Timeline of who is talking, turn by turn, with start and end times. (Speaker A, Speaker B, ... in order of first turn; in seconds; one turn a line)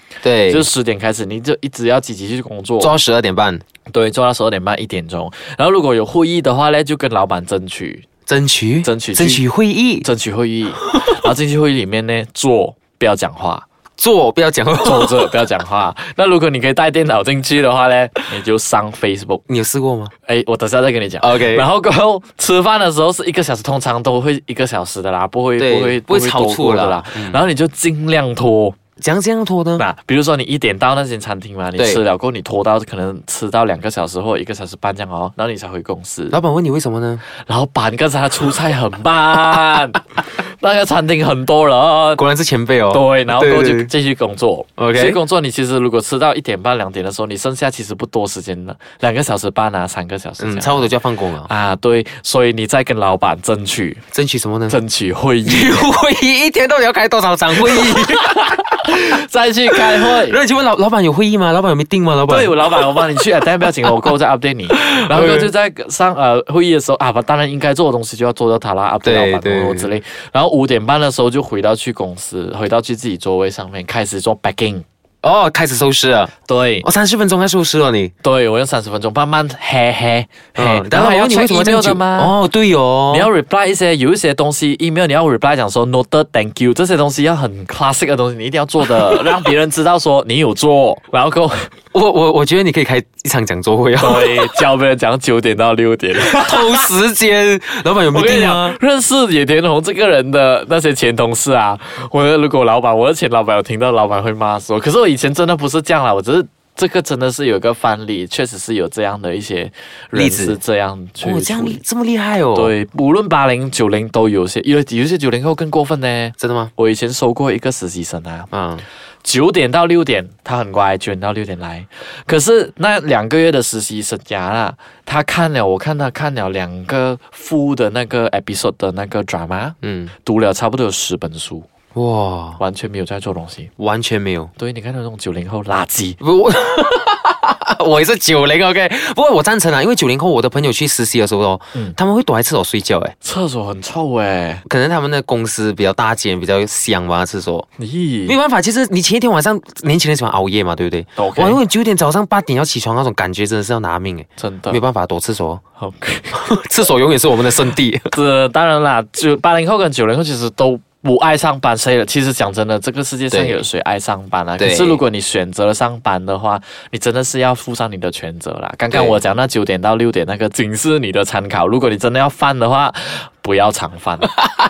Speaker A: 0.2-0.7
Speaker B: 0.5-3.0
Speaker A: 2.8-3.6
Speaker B: 3.9-8.0
Speaker A: 8.3-10.1
Speaker B: 8.8-9.4
Speaker B: 10.0-13.6
Speaker A: 14.0-15.3
Speaker B: 14.8-19.4
Speaker A: 19.5-20.1
Speaker B: 20.2-28.8
Speaker A: 21.2-21.7
Speaker A: 25.6-27.4
Speaker A: 29.0-29.9
Speaker B: 29.8-36.4
Speaker A: 36.3-37.2
Speaker B: 37.5-42.2
Speaker A: 42.2-43.9
Speaker B: 42.9-50.9
Speaker A: 44.8-45.2
Speaker A: 50.4-51.5
Speaker B: 51.5-54.0
Speaker A: 54.1-54.8
Speaker B: 54.7-55.9
Speaker A: 55.5-58.6
Speaker B: 57.5-60.4
Speaker A: 60.1-62.6
Speaker B: 62.3-74.8
Speaker A: 64.8-65.5
Speaker A: 69.0-69.9
Speaker A: 75.2-78.1
Speaker B: 76.5-76.8
Speaker B: 78.2-82.3
Speaker A: 80.5-83.3
Speaker B: 83.1-91.7
Speaker A: 91.9-94.6
Speaker B: 94.0-96.9
Speaker A: 96.2-98.8
Speaker B: 98.1-111.8
Speaker A: 110.1-110.6
Speaker A: 111.2-112.7
Speaker B: 112.5-118.5
Speaker A: 116.4-116.7
Speaker A: 118.5-118.8
Speaker B: 119.2-131.7
Speaker A: 129.8-130.1
Speaker A: 131.9-132.6
Speaker B: 132.6-133.7
Speaker A: 133.8-134.5
Speaker B: 134.6-136.2
Speaker A: 136.2-143.1
Speaker B: 143.2-144.6
Speaker A: 144.7-147.7
Speaker B: 147.8-148.4
Speaker A: 148.3-155.6
Speaker B: 151.2-151.6
Speaker B: 154.4-154.8
Speaker B: 155.8-156.5
Speaker A: 156.3-158.1
Speaker B: 158.1-174.4
Speaker A: 163.3-163.6
Speaker A: 164.6-165.0
Speaker A: 168.9-169.2